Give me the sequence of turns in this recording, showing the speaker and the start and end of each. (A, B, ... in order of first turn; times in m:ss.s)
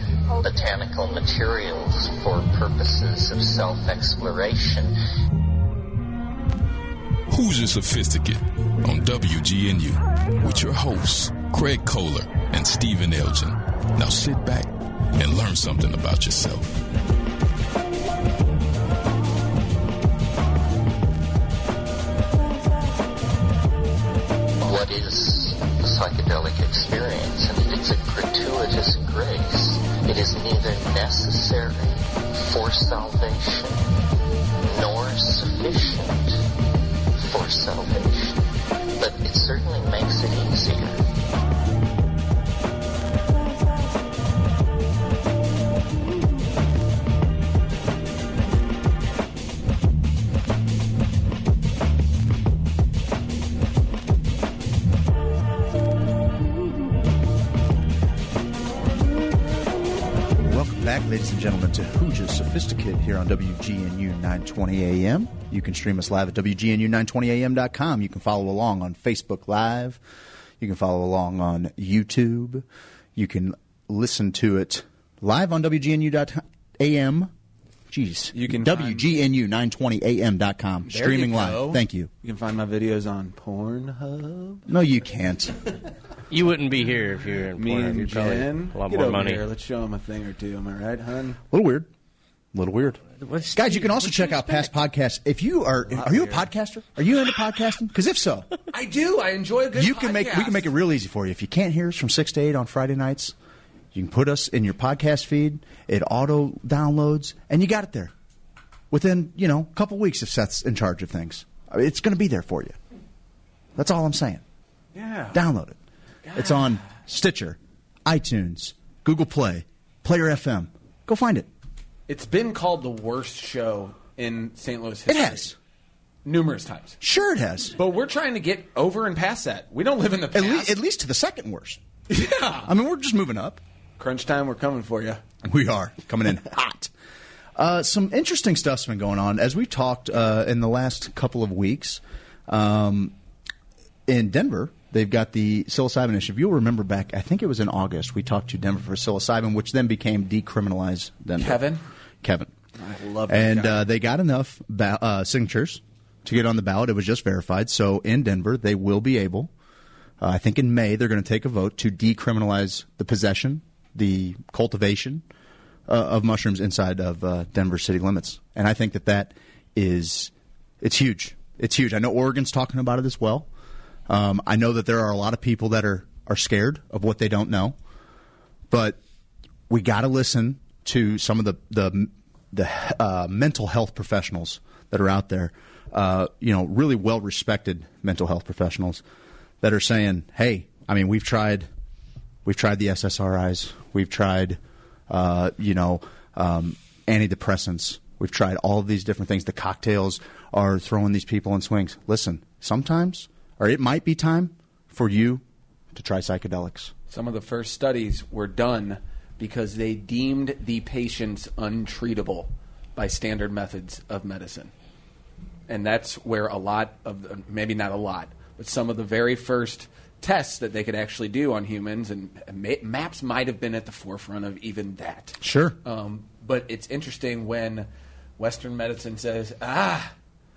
0:00.4-0:04.9 A
0:07.3-0:16.8 B
0:24.6-0:33.8 A
0:34.7-0:36.4 A
0:37.2-0:38.4 A
0:39.0-0:41.0 A
1:00.4-1:10.0 C
1:10.6-1:17.3 C
1:17.9-1:22.1 C
1:18.3-1:19.1 D
1:20.9-1:24.6 D
1:24.7-1:25.6 C
1:26.3-1:29.4 E
1:27.6-1:31.4 D
1:31.5-1:31.9 C
1:32.5-1:33.0 C
1:33.2-1:34.7 E
1:33.5-1:38.5 C
1:35.9-1:36.5 D
1:38.7-1:40.7 D
1:39.7-1:43.3 C
1:43.9-1:48.1 C
1:48.9-1:52.8 C
1:53.8-1:54.4 C
1:54.9-1:55.4 D
1:55.3-1:55.8 C
1:56.2-1:56.8 D
1:56.3-2:01.5 C
2:02.1-2:05.5 D
2:05.1-2:05.6 C
2:06.2-2:07.0 D
2:07.0-2:07.7 C
2:07.7-2:10.7 D
2:10.3-2:11.8 C
2:12.1-2:12.7 D
2:12.6-2:13.6 C
2:14.0-2:15.2 D
2:15.4-2:16.9 C
2:17.6-2:23.1 C
2:24.1-2:31.6 C
2:31.4-2:31.8 D
2:32.2-2:32.5 C
2:32.8-2:33.8 D
2:33.3-2:39.5 C
2:40.2-2:45.2 C
2:45.9-2:53.5 C
2:54.1-2:57.8 C
2:58.7-2:59.0 C
2:59.7-3:09.0 C
3:09.6-3:11.7 C
3:12.4-3:25.4 C
3:25.9-3:26.9 C
3:27.1-3:34.7 D
3:35.7-3:47.9 D
3:45.4-3:45.8 C
3:48.4-3:50.1 D